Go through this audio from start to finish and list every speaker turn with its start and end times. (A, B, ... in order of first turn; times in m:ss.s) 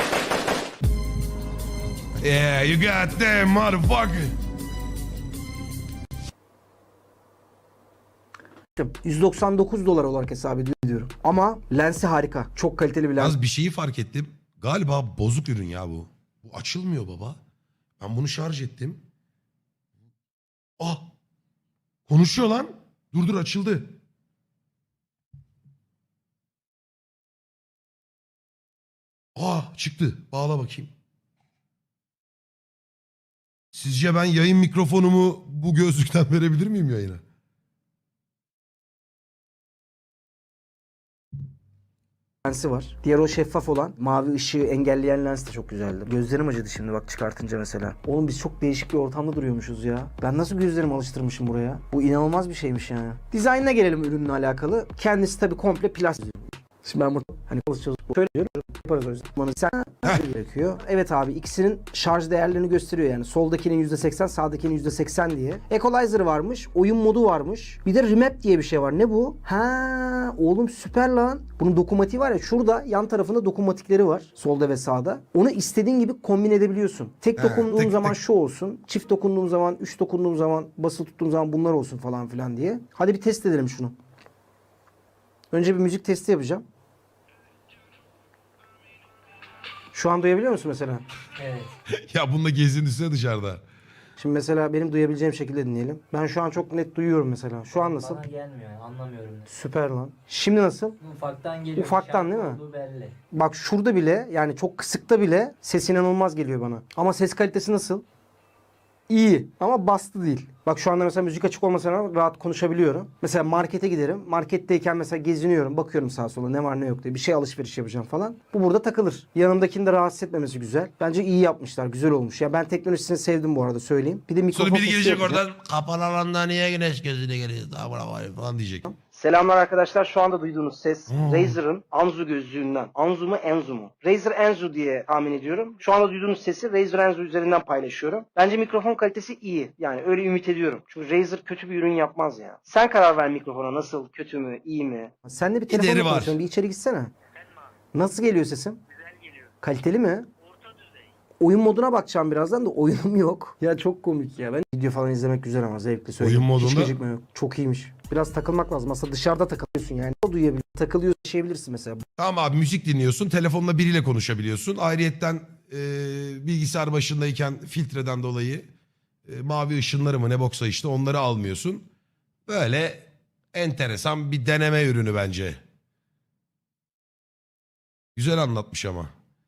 0:02.2-0:04.3 A
0:08.8-0:13.3 B
0:13.2-0:17.4 A
0:18.0-0:19.0 A
0:20.8-0:21.1 A
0:22.1-0:24.0 A
0:29.4-0:30.9 A
0:33.7-0:37.2 A
0:42.4-1:23.9 B
1:17.4-1:18.2 A
1:25.5-1:26.6 B
1:29.9-1:31.0 B
1:31.4-1:31.7 C
1:31.9-1:33.6 A
1:34.2-1:38.2 B
1:37.7-1:39.5 C
1:39.5-1:41.0 B
1:41.0-1:43.2 C
1:41.8-1:42.6 B
1:43.3-1:48.0 B
1:49.1-2:05.4 B
2:04.5-2:08.9 A
2:08.9-2:27.1 B
2:11.1-2:11.6 A
2:25.7-2:26.4 A
2:27.9-2:28.8 B
2:29.6-2:30.2 B
2:31.4-2:42.0 B
2:36.2-2:36.9 A
2:42.2-2:48.6 A
2:49.2-2:51.9 A
2:52.4-2:55.6 A
2:58.2-2:59.1 A